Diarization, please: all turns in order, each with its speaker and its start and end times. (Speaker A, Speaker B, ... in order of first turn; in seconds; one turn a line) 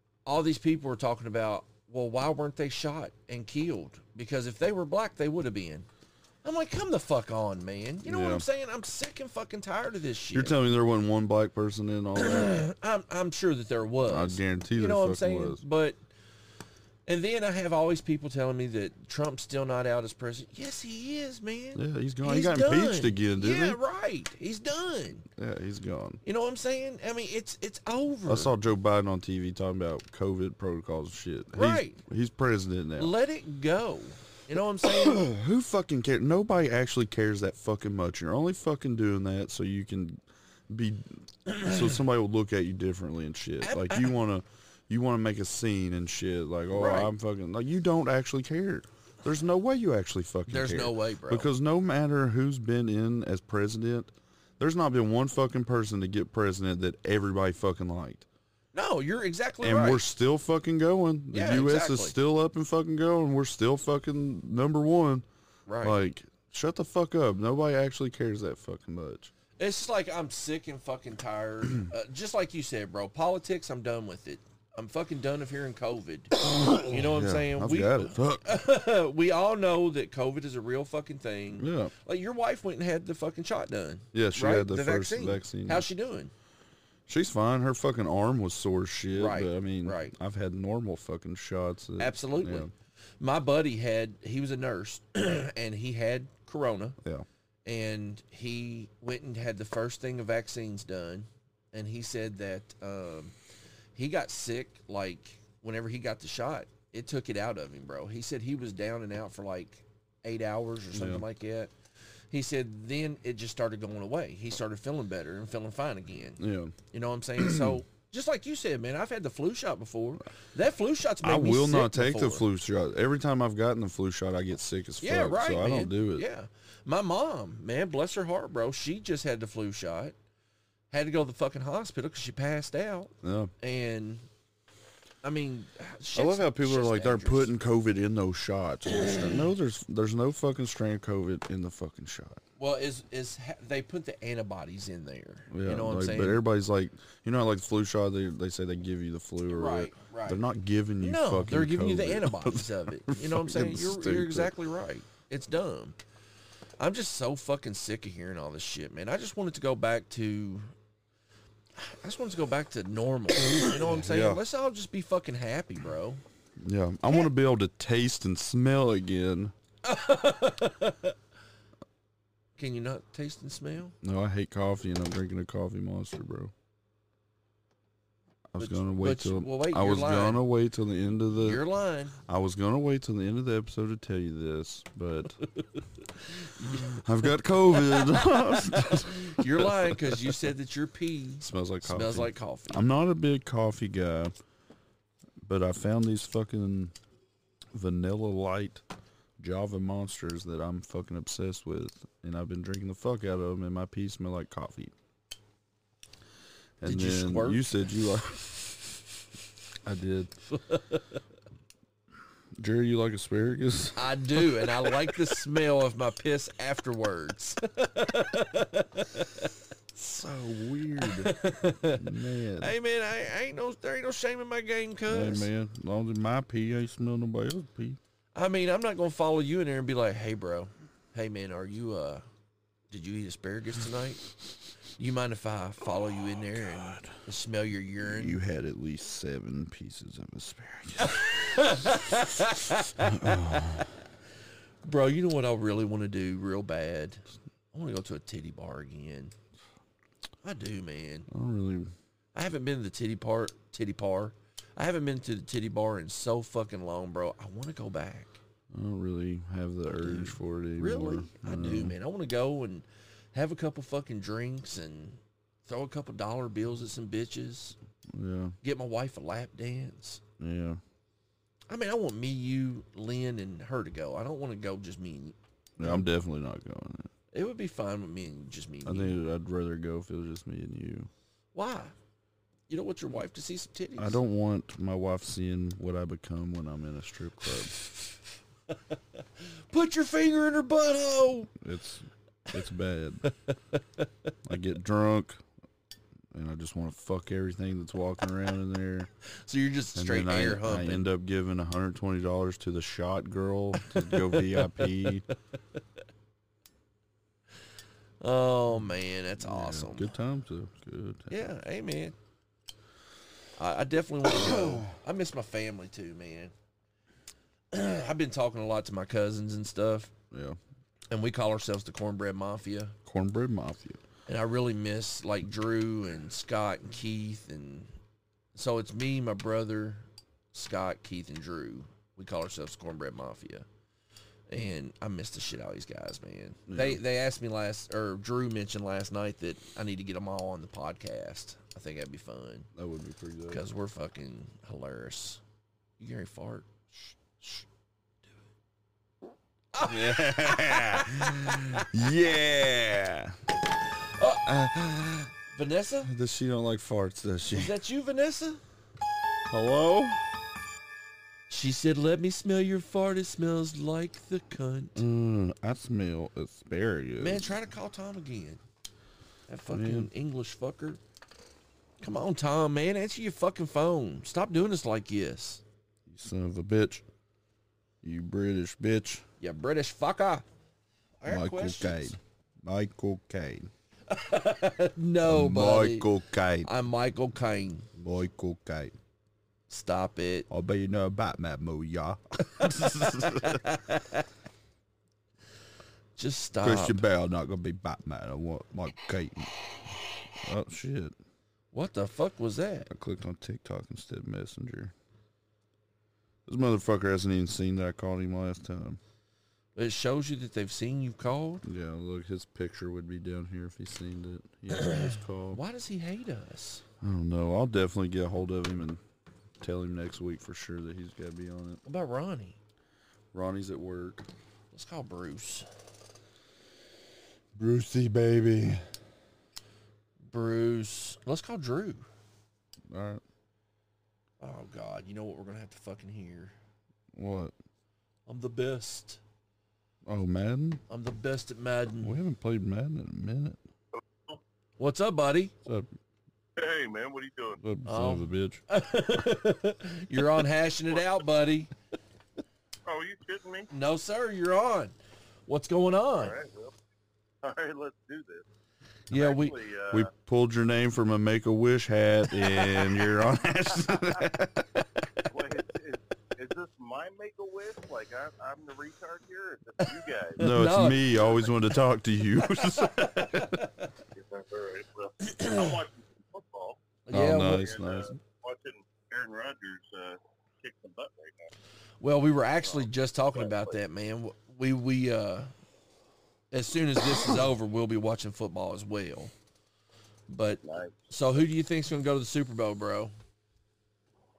Speaker A: 0.2-5.9
Speaker A: 6.4-10.6
Speaker B: 8.0-8.4
Speaker B: 10.3-12.6
Speaker A: 12.2-16.0
Speaker B: 14.1-15.6
Speaker A: 17.1-25.2
Speaker B: 21.7-23.8
Speaker B: 25.4-26.2
Speaker A: 26.2-28.5
Speaker B: 28.2-33.1
Speaker A: 31.5-32.0
Speaker A: 33.0-35.2
Speaker B: 34.8-58.2
Speaker A: 41.5-41.8
Speaker A: 43.6-44.1
Speaker A: 46.7-47.1
Speaker A: 50.5-51.5
Speaker A: 58.7-60.0
Speaker B: 59.6-65.2
Speaker A: 61.3-62.1
Speaker A: 65.7-66.0
Speaker B: 65.8-69.3
Speaker A: 69.6-86.3
Speaker B: 76.4-78.5
Speaker B: 81.6-81.9
Speaker B: 84.1-85.8
Speaker B: 87.1-92.7
Speaker A: 89.1-90.1
Speaker A: 92.0-97.0
Speaker A: 97.7-103.3
Speaker A: 103.9-111.7
Speaker B: 110.9-111.2
Speaker A: 112.3-122.5
Speaker B: 116.4-116.7
Speaker B: 117.4-117.8
Speaker B: 121.2-126.3
Speaker A: 125.0-130.1
Speaker A: 130.9-134.3
Speaker B: 133.2-133.5
Speaker A: 135.2-137.5
Speaker B: 136.1-142.4
Speaker A: 142.6-146.4
Speaker B: 145.5-154.5
Speaker A: 149.5-150.4
Speaker A: 151.0-156.0
Speaker A: 156.8-160.7
Speaker A: 161.7-166.2
Speaker B: 163.5-164.4
Speaker B: 166.6-169.5
Speaker A: 169.8-171.2
Speaker A: 172.6-173.9
Speaker B: 174.0-176.5
Speaker B: 178.5-181.6
Speaker A: 178.6-180.4
Speaker A: 181.4-182.2
Speaker B: 182.2-185.4
Speaker A: 186.3-187.0
Speaker B: 186.9-190.3
Speaker A: 187.7-192.8
Speaker B: 191.4-194.3
Speaker B: 195.4-196.9
Speaker B: 197.7-198.8
Speaker B: 199.4-204.9
Speaker B: 206.8-208.6
Speaker A: 206.8-207.7
Speaker B: 209.8-210.3
Speaker A: 210.5-211.2
Speaker B: 212.6-215.1
Speaker A: 213.9-219.5
Speaker B: 219.9-222.7
Speaker A: 221.0-225.5
Speaker B: 225.1-228.0
Speaker A: 228.3-232.2
Speaker A: 232.9-234.3
Speaker A: 234.9-238.4
Speaker B: 236.7-237.0
Speaker B: 238.0-241.5
Speaker A: 241.0-243.8
Speaker B: 243.0-243.9
Speaker A: 244.8-249.3
Speaker A: 250.4-251.3
Speaker B: 251.3-251.9
Speaker A: 252.3-258.4
Speaker B: 258.7-261.9
Speaker A: 259.9-267.8
Speaker B: 268.1-268.5
Speaker A: 268.6-270.2
Speaker B: 270.4-270.8
Speaker A: 271.7-276.0
Speaker B: 275.8-277.1
Speaker A: 277.3-279.2
Speaker B: 278.8-281.1
Speaker A: 281.5-281.9
Speaker A: 282.7-284.2
Speaker B: 284.0-287.7
Speaker A: 288.7-291.5
Speaker B: 291.6-293.2
Speaker B: 294.4-295.4
Speaker B: 296.3-299.1
Speaker A: 299.3-301.1
Speaker B: 299.9-305.2
Speaker A: 303.8-305.3
Speaker A: 308.2-310.1
Speaker B: 309.4-311.4
Speaker A: 311.3-312.1
Speaker A: 313.6-316.5
Speaker B: 314.4-314.8
Speaker A: 317.7-320.1
Speaker B: 320.3-320.6
Speaker A: 321.1-322.9
Speaker B: 323.0-324.0
Speaker A: 324.3-327.9
Speaker A: 328.5-333.7
Speaker A: 334.5-342.7
Speaker B: 336.7-337.0
Speaker B: 342.7-343.6
Speaker A: 343.5-345.4
Speaker A: 346.0-347.6
Speaker A: 349.7-351.9
Speaker B: 349.8-353.4
Speaker A: 354.1-354.5
Speaker B: 354.4-355.3
Speaker A: 355.5-356.1
Speaker B: 356.0-357.7
Speaker A: 357.5-358.6
Speaker B: 359.5-360.2
Speaker A: 361.5-365.0
Speaker B: 364.9-367.5
Speaker A: 367.2-368.6
Speaker A: 369.5-371.0
Speaker B: 369.7-370.1
Speaker A: 372.0-375.6
Speaker B: 376.1-377.0
Speaker B: 378.0-379.2
Speaker A: 379.4-380.4
Speaker A: 381.2-382.2
Speaker B: 381.2-383.7
Speaker A: 384.1-386.1
Speaker B: 385.2-386.7
Speaker A: 386.6-387.9
Speaker B: 387.9-388.9
Speaker A: 389.7-390.5
Speaker B: 390.5-393.6
Speaker A: 392.5-394.2
Speaker A: 396.2-397.0
Speaker B: 396.6-401.1
Speaker A: 401.7-402.9
Speaker B: 402.9-404.9
Speaker B: 406.5-409.0
Speaker A: 409.7-411.6
Speaker B: 411.6-415.6
Speaker A: 414.7-416.8
Speaker B: 417.0-419.0
Speaker B: 419.6-421.8
Speaker A: 421.8-422.6
Speaker B: 423.3-424.3
Speaker A: 424.7-425.7
Speaker B: 427.6-428.8
Speaker A: 430.3-432.0
Speaker B: 432.9-433.2
Speaker A: 434.4-436.5
Speaker B: 437.1-437.5
Speaker A: 438.3-439.2
Speaker B: 440.0-440.8
Speaker A: 440.9-442.1
Speaker B: 442.0-443.6
Speaker A: 444.8-445.5
Speaker C: 446.6-447.6
Speaker B: 447.6-448.6
Speaker A: 447.9-451.7
Speaker C: 452.9-453.7
Speaker A: 453.7-454.9
Speaker A: 455.5-456.3
Speaker C: 456.2-456.7
Speaker C: 457.4-458.4
Speaker A: 459.1-459.6
Speaker C: 459.1-460.1
Speaker B: 459.9-464.7
Speaker A: 462.6-463.0
Speaker C: 465.3-470.4
Speaker A: 470.4-471.4
Speaker B: 470.4-473.6
Speaker A: 472.6-473.9
Speaker C: 474.1-481.5
Speaker A: 475.2-475.7
Speaker A: 477.1-477.7
Speaker B: 477.1-478.1
Speaker A: 482.0-485.5
Speaker C: 483.3-483.7
Speaker A: 486.5-489.3
Speaker A: 490.3-493.1
Speaker C: 490.6-491.1